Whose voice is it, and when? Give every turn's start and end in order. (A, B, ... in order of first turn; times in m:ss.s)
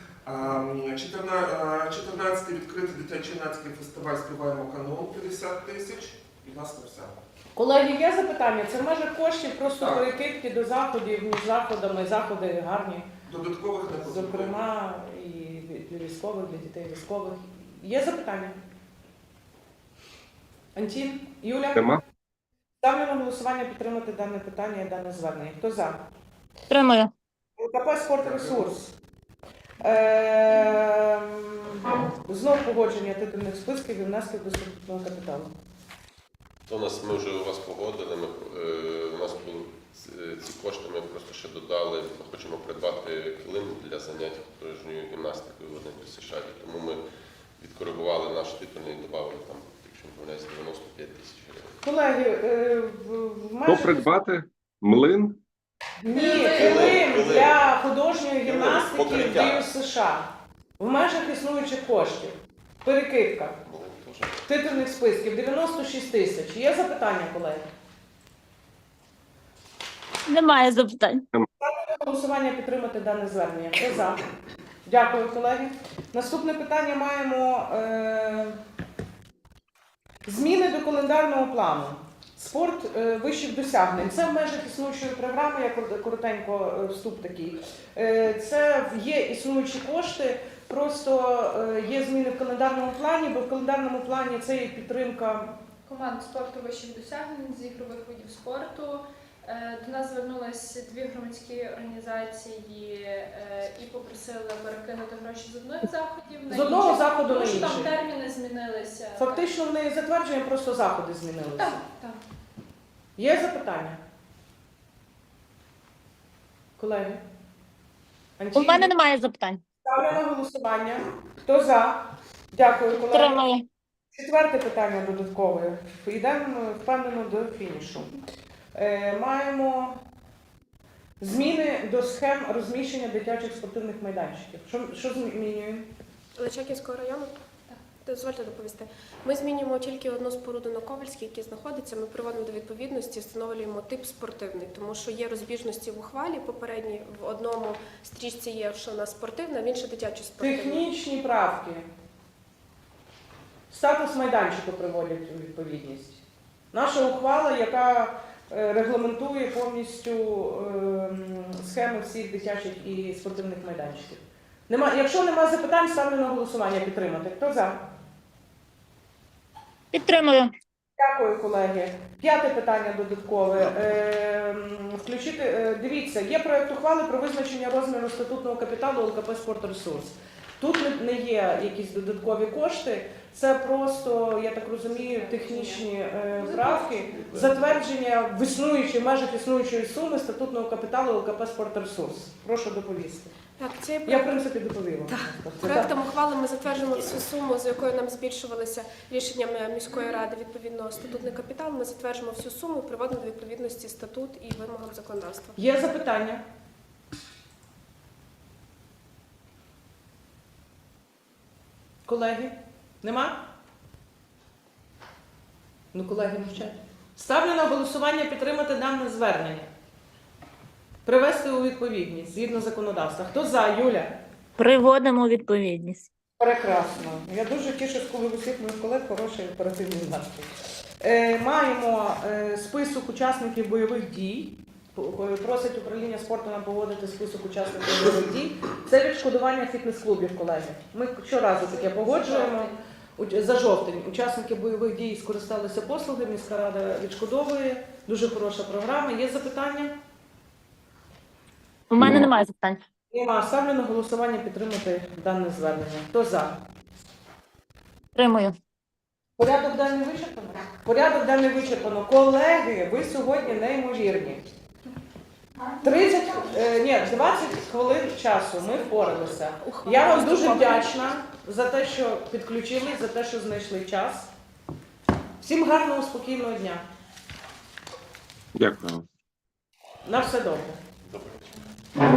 0:00.3-0:07.2 A
0:07.6-0:13.1 B
0:09.8-0:10.1 A
0:13.3-0:14.6 A
0:14.0-0:18.6 B
0:20.8-0:21.8 B
0:21.7-0:22.0 C
0:22.8-0:26.0 B
0:26.7-0:27.1 D
0:27.6-0:28.9 B
0:28.2-0:28.7 A
0:29.8-0:35.5 B
0:36.7-0:47.0 E
0:47.6-0:51.8 E
0:51.8-0:54.0 B
0:53.7-0:55.4 C
0:56.0-1:03.6 B
0:56.1-0:56.8 F
0:56.4-0:57.5 E
0:58.4-0:59.6 E
1:03.6-1:04.4 E
1:04.5-1:07.7 B
1:10.3-1:11.2 D
1:11.6-1:14.2 B
1:14.8-1:18.6 B
1:20.2-1:35.6 B
1:35.9-1:49.5 F
1:46.5-1:47.9 B
1:49.2-1:51.8 B
1:51.6-1:52.2 F
1:53.2-1:54.0 B
1:56.8-1:57.2 B
1:58.4-1:58.9 B
1:58.5-1:59.6 D
1:59.8-2:03.4 B
2:03.0-2:03.7 D
2:04.1-2:08.1 B
2:08.8-2:10.0 B
2:11.2-2:15.9 B
2:16.4-2:17.4 G
2:18.0-2:30.9 G
2:30.4-2:31.8 B
2:33.7-2:47.8 B
2:49.9-2:50.5 D
2:51.0-3:13.3 B
3:05.0-3:07.6 G
3:13.6-3:14.5 G
3:14.0-3:15.9 B
3:15.1-3:25.6 G
3:25.6-3:26.4 B
3:32.0-3:33.4 B
3:35.9-3:39.7 B
3:41.0-3:44.1 B
3:44.6-3:46.1 D
3:46.4-3:50.5 B
3:51.0-4:09.9 B
4:11.9-4:12.8 D
4:12.0-4:12.3 C
4:13.1-4:16.6 B
4:18.2-4:18.5 D
4:19.4-4:24.4 B
4:25.8-4:34.3 B
4:29.6-4:31.0 G
4:35.4-4:36.8 B
4:38.6-4:39.1 C
4:40.0-4:40.8 B
4:41.1-4:41.4 E